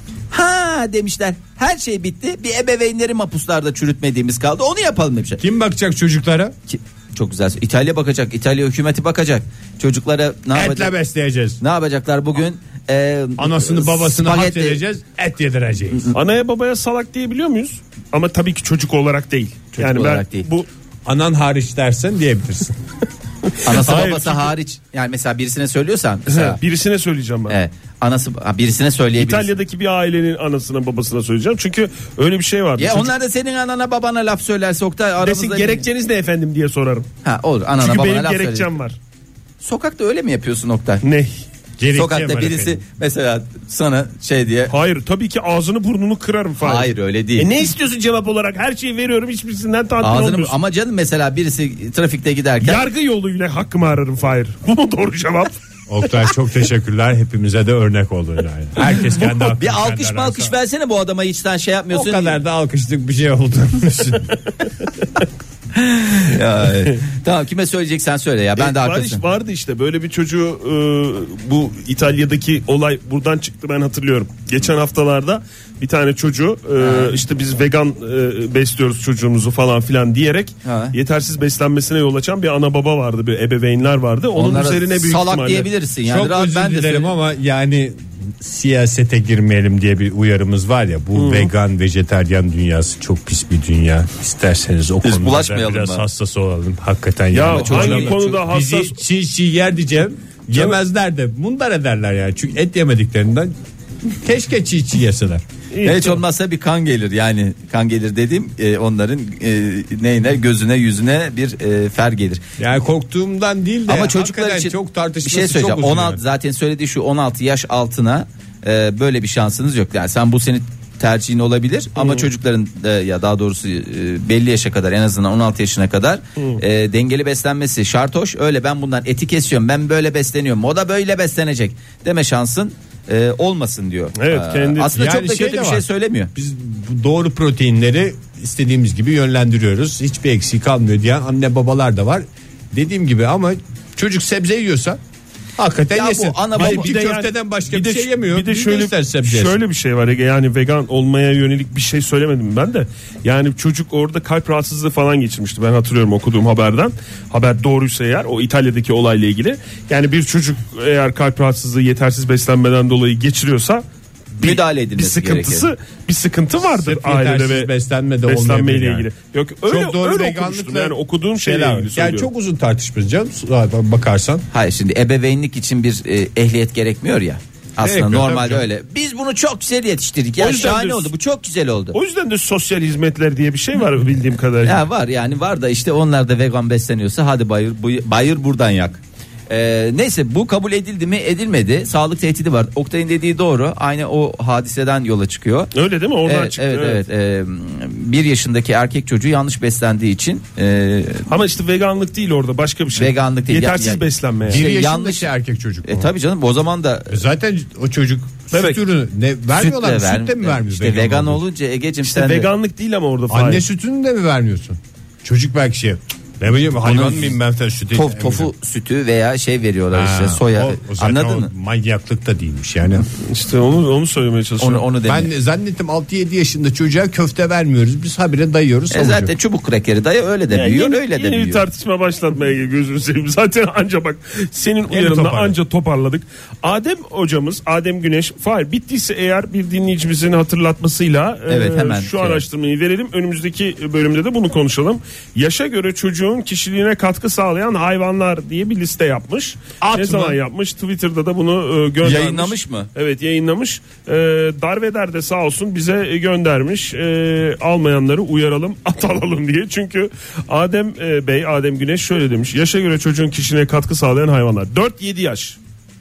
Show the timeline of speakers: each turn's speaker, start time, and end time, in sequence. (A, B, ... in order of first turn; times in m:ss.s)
0:00.3-0:05.4 A
0:05.4-0:06.5 B
0:06.7-0:10.9 A
0:10.5-0:11.6 B
0:11.6-0:14.8 A
0:13.4-0:16.1 B
0:16.1-0:20.7 C
0:19.8-0:20.5 A
0:21.0-0:22.8 B
0:23.5-0:24.5 C
0:23.6-0:26.6 A
0:26.3-0:27.6 C
0:27.5-0:29.5 A
0:29.2-0:33.1 C
0:32.8-0:35.8 A
0:35.2-0:37.1 C
0:37.2-0:38.7 A
0:37.8-0:39.0 C
0:39.6-0:41.0 A
0:41.0-0:41.4 C
0:41.8-0:42.8 B
0:41.9-0:44.7 A
0:44.7-0:50.5 C
0:46.6-0:47.5 A
0:50.0-0:52.8 A
0:52.6-0:55.5 C
0:55.9-1:00.5 B
0:58.9-1:02.4 A
1:01.9-1:04.4 B
1:05.7-1:09.2 A
1:08.6-1:25.7 C
1:16.8-1:17.1 A
1:20.6-1:20.9 A
1:24.3-1:27.1 A
1:26.0-1:43.5 B
1:31.1-1:31.5 C
1:35.0-1:36.0 A
1:37.3-1:39.0 C
1:37.5-1:38.4 A
1:44.0-1:45.4 B
1:45.7-1:46.2 C
1:45.8-1:52.4 A
1:52.6-1:56.2 B
1:53.9-2:16.3 A
2:02.0-2:02.3 C
2:14.2-2:15.0 C
2:14.9-2:25.0 B
2:25.6-2:29.6 B
2:25.9-2:27.0 A
2:26.6-2:43.8 C
2:44.4-2:47.7 C
2:44.4-2:45.7 A
2:46.6-2:49.1 B
2:48.2-2:52.3 C
2:49.7-2:54.4 B
2:54.5-3:01.9 A
2:57.8-2:58.6 B
3:00.4-3:01.1 C
3:01.9-3:04.8 C
3:04.6-3:15.7 A
3:15.7-3:17.0 C
3:16.2-3:21.3 A
3:21.3-3:24.6 C
3:23.0-3:25.3 A
3:24.4-3:26.1 B
3:25.8-3:27.2 A
3:27.1-3:31.4 B
3:28.5-3:28.8 C
3:29.5-3:32.5 A
3:32.0-3:33.6 C
3:33.3-3:38.5 B
3:36.8-3:37.3 C
3:36.9-3:37.3 A
3:37.9-3:41.5 A
3:39.9-3:43.0 B
3:43.1-3:44.9 C
3:44.6-3:45.3 A
3:45.0-3:49.3 B
3:48.9-3:51.6 A
3:50.5-4:25.6 C
3:54.9-3:55.6 B
4:01.5-4:02.4 A
4:09.8-4:10.4 B
4:12.0-4:12.9 A